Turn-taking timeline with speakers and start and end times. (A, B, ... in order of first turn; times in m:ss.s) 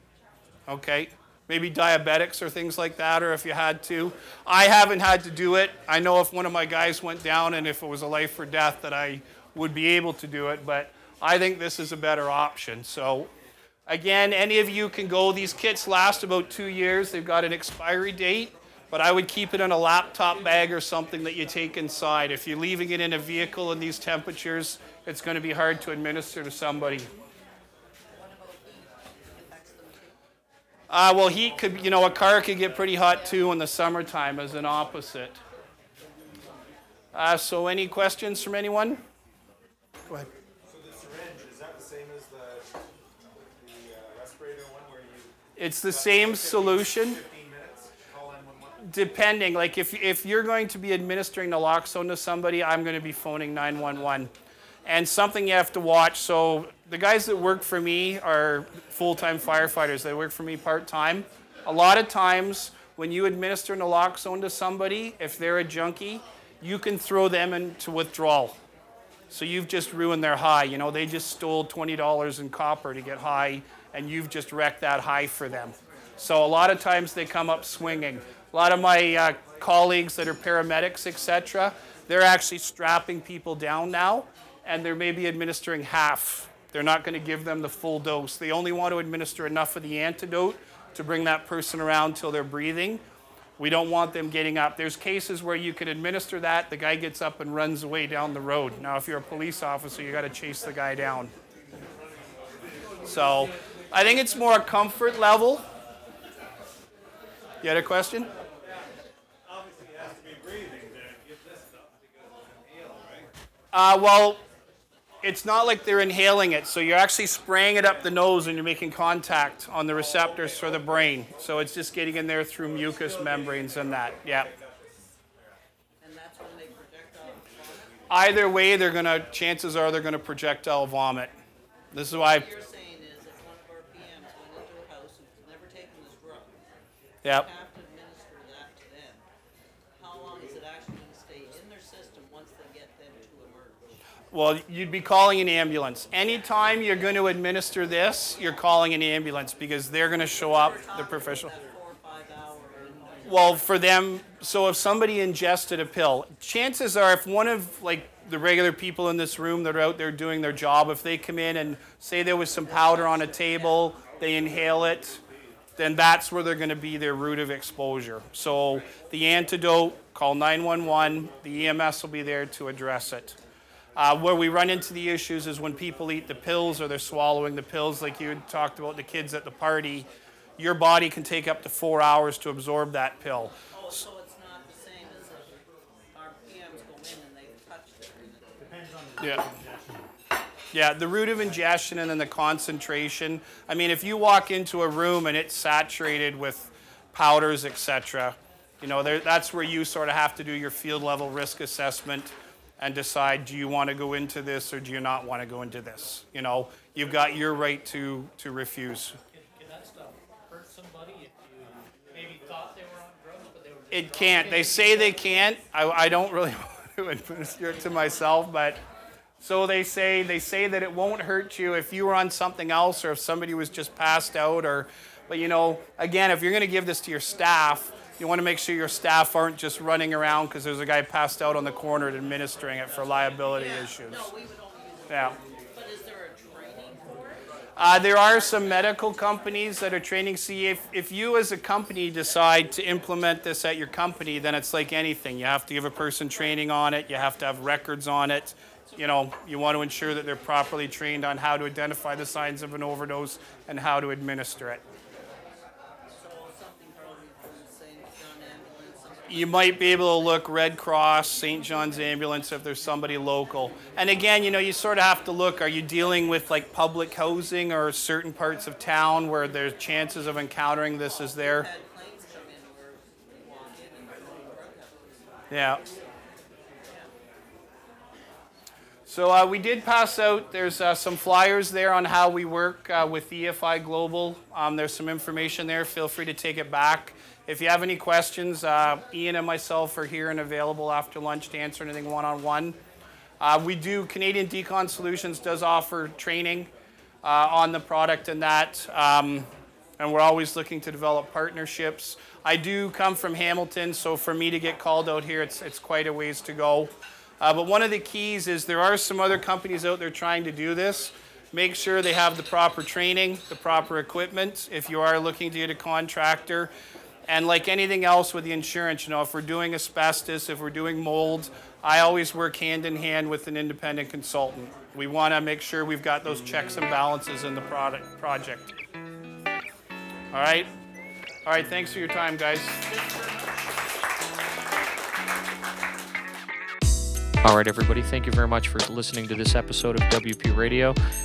0:00.7-0:13.3 A
0:13.9-0:27.1 A
0:28.1-0:30.2 B
0:30.9-0:35.4 A
0:37.1-0:39.0 A
0:40.6-0:42.8 C
0:43.3-0:45.3 C
0:45.6-0:47.2 A
0:45.9-0:48.9 C
0:48.8-0:54.3 A
0:54.8-1:08.6 A
1:09.3-1:33.0 A
1:33.6-1:41.3 A
1:43.0-1:45.6 A
1:47.6-1:48.3 A
1:49.5-1:53.2 C
1:53.7-1:54.4 A
1:55.2-2:04.5 A
2:06.0-2:08.0 B
2:08.1-2:11.3 A
2:11.9-2:12.5 A
2:12.0-2:16.7 B
2:17.2-2:19.2 B
2:20.0-2:23.9 B
2:24.3-2:31.5 A
2:30.2-2:33.6 B
2:33.2-2:45.2 A
2:42.6-2:43.9 B
2:45.8-2:53.4 A
2:54.0-3:03.6 A
3:03.7-3:08.6 B
3:08.6-3:10.1 C
3:09.2-3:09.4 A
3:10.7-3:29.2 A
3:29.3-3:35.5 D
3:33.9-3:38.8 A
3:39.4-3:54.3 A
3:53.0-3:57.4 B
3:55.1-3:55.4 A
3:57.8-4:14.8 A
3:58.1-3:59.0 B
4:16.1-4:19.8 B
4:19.3-4:31.7 A
4:31.0-4:35.4 B
4:35.5-4:35.8 A
4:39.1-4:52.8 A
4:53.4-4:56.7 A
4:57.2-5:16.7 A
5:17.3-5:28.8 A
5:30.3-5:30.7 A
5:31.4-5:32.9 A
5:32.9-5:33.5 D
5:37.4-5:41.0 E